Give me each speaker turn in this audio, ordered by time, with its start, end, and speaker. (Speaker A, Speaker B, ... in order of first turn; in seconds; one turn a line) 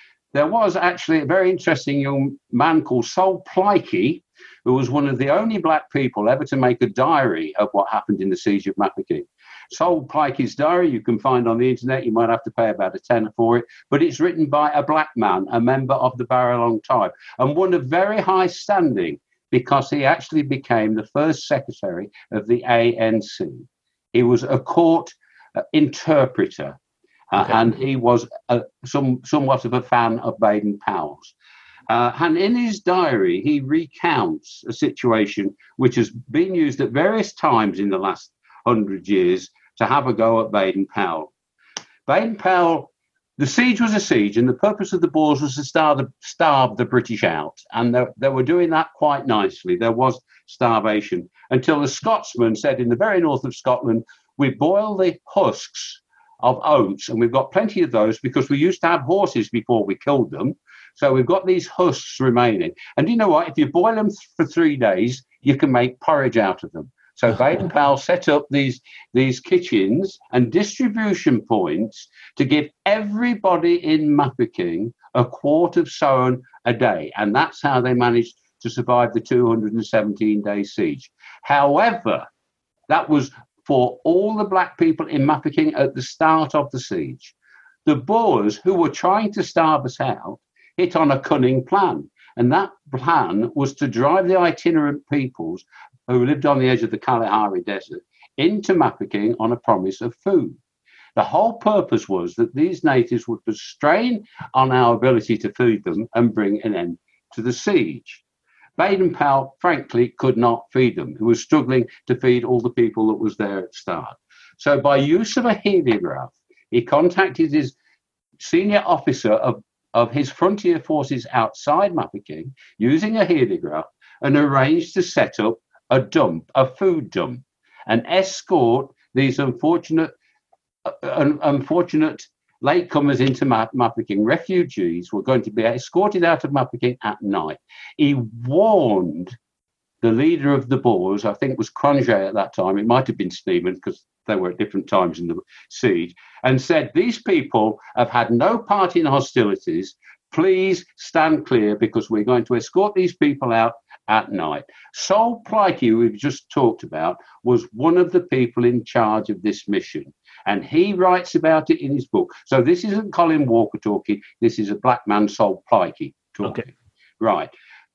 Speaker A: 0.3-26.8
Speaker A: 27.3-31.3
Speaker A: 31.9-41.3
Speaker A: 42.1-82.3
Speaker A: 82.9-87.3
Speaker A: 87.8-100.6
Speaker A: 101.2-108.2
Speaker A: 108.8-117.8
Speaker A: 118.4-130.1
Speaker A: 130.9-139.4
Speaker A: 140.0-167.5